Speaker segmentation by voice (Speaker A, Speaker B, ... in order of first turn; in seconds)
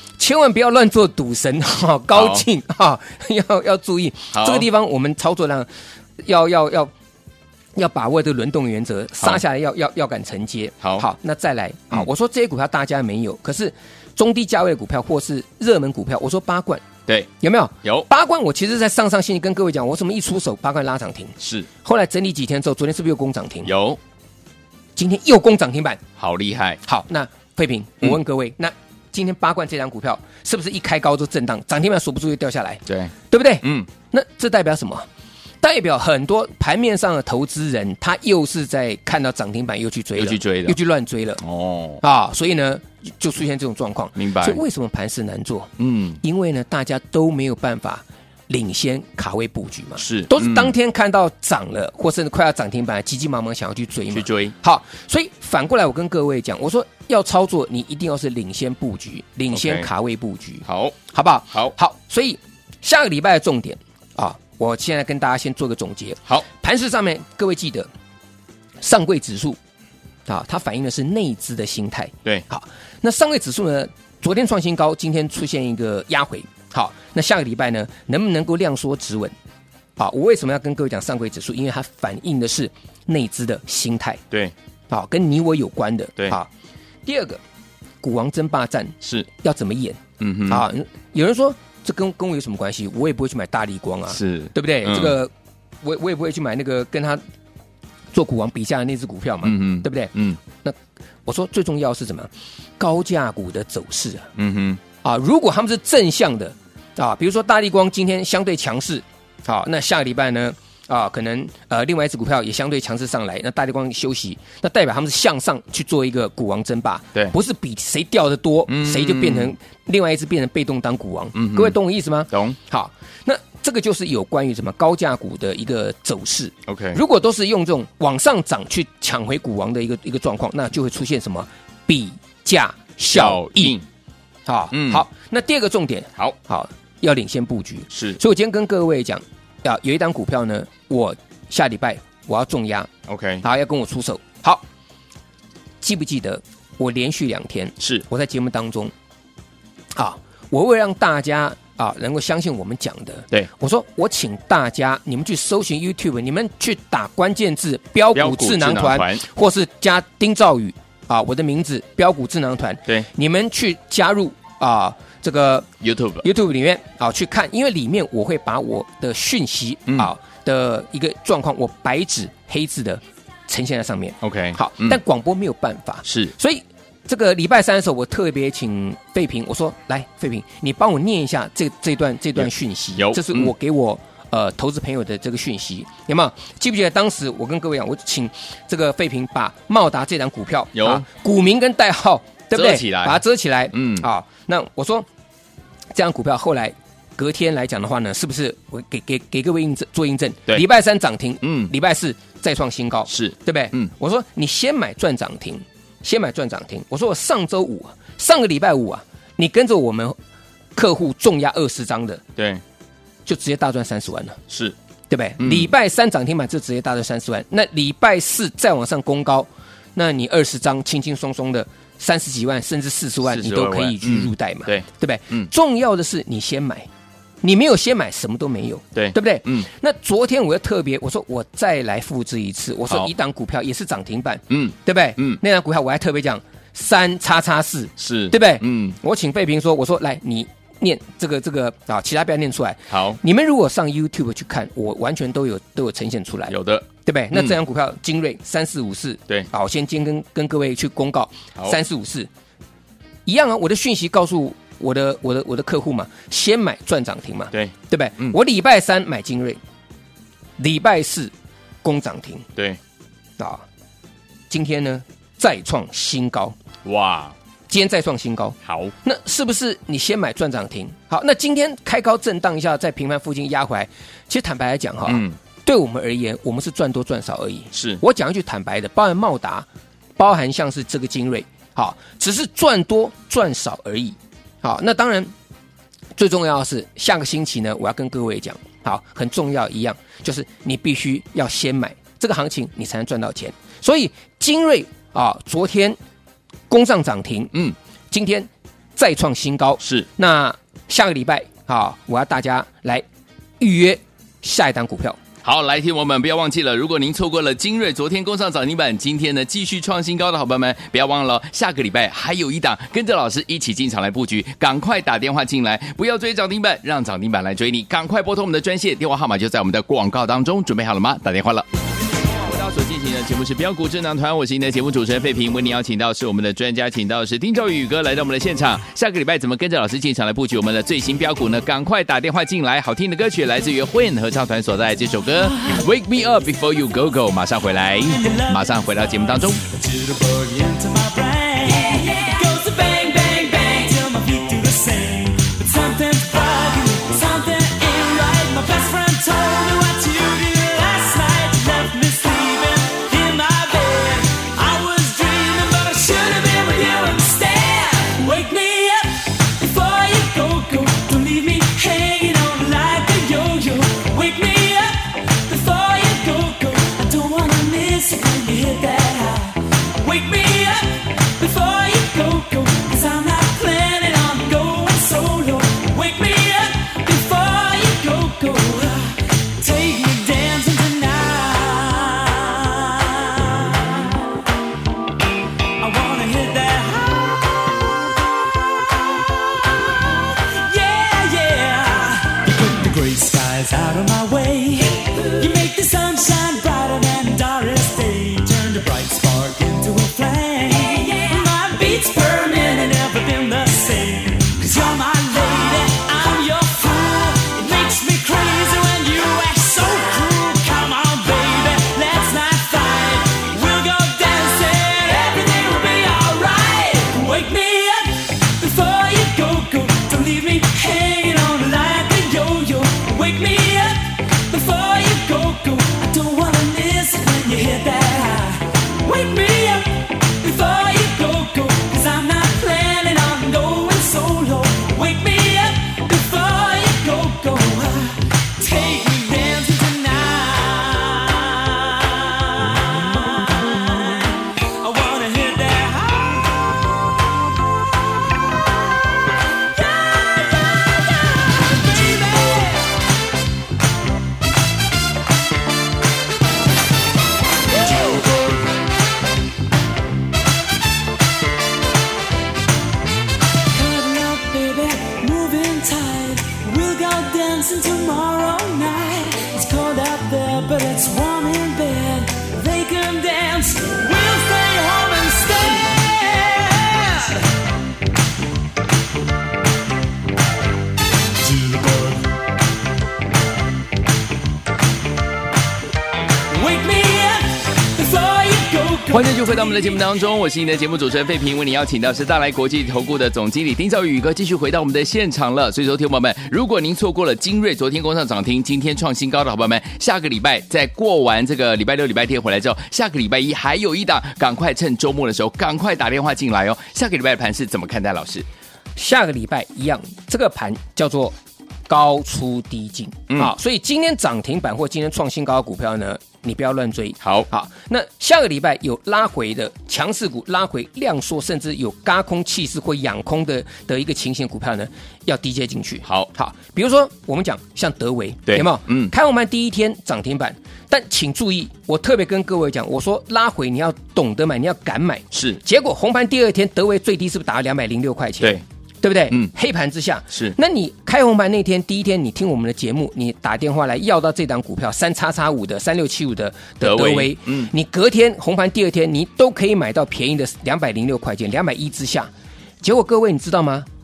Speaker A: 0.2-5.7, 6.2-6.9, 7.8-16.9, 17.4-23.7, 25.0-26.0, 26.8-35.1, 35.6-41.4, 42.0-45.7, 46.2-67.9, 68.8-69.6, 70.3-79.3, 80.0-84.2, 84.9-86.5, 87.1-87.4, 88.0-97.2, 98.1-104.3, 105.0-133.8, 134.5-142.9, 143.4-144.6, 145.8-148.9, 150.0-165.7, 166.2-195.1, 195.9-210.2, 210.8-212.2, 213.3-214.4, 215.1-226.9, 227.4-252.3, 253.3-259.6, 260.6-261.3, 261.8-262.5, 263.4-263.6, 264.5-266.6, 267.7-285.3, 286.2-296.0, 296.7-297.5, 298.1-303.1, 303.6-305.2, 509.0-511.4, 511.9-552.3, 552.8-553.9
Speaker B: 2.1-2.5, 4.3-4.7, 21.4-21.7, 23.6-24.0, 26.2-26.8, 32.9-33.9, 40.2-40.8, 41.4-42.0, 44.2-44.6, 45.8-46.2, 50.0-50.7, 54.1-54.5, 59.5-59.9, 60.6-61.0, 90.2-90.6, 94.1-95.2, 99.4-100.4, 104.4-104.8, 118.7-119.5, 121.3-121.8, 122.3-122.6, 126.7-127.0, 133.1-133.8, 134.7-135.0, 137.9-138.2, 143.1-143.4, 158.1-159.2, 165.8-166.2, 174.2-175.0, 176.1-176.3, 182.4-183.5, 190.8-191.1, 192.5-193.2, 193.7-194.1, 201.4-201.7, 203.1-203.9, 214.5-214.8, 215.4-215.7, 223.2-225.5, 228.9-229.7, 234.5-235.4, 238.0-239.0, 242.9-243.2, 246.5-247.6, 257.5-258.4, 266.9-267.4, 268.6-268.9, 275.1-275.4, 277.7-278.0, 305.4-321.7, 322.2-339.6, 489.1-508.5, 517.2-517.5, 528.5-529.1, 535.3-535.6, 546.8-547.7
Speaker C: 335.6-335.8, 338.1-338.6, 339.7-384.1, 385.8-387.4, 390.6-446.5, 449.8-452.9, 457.9-458.3, 463.7-477.4, 486.5-490.0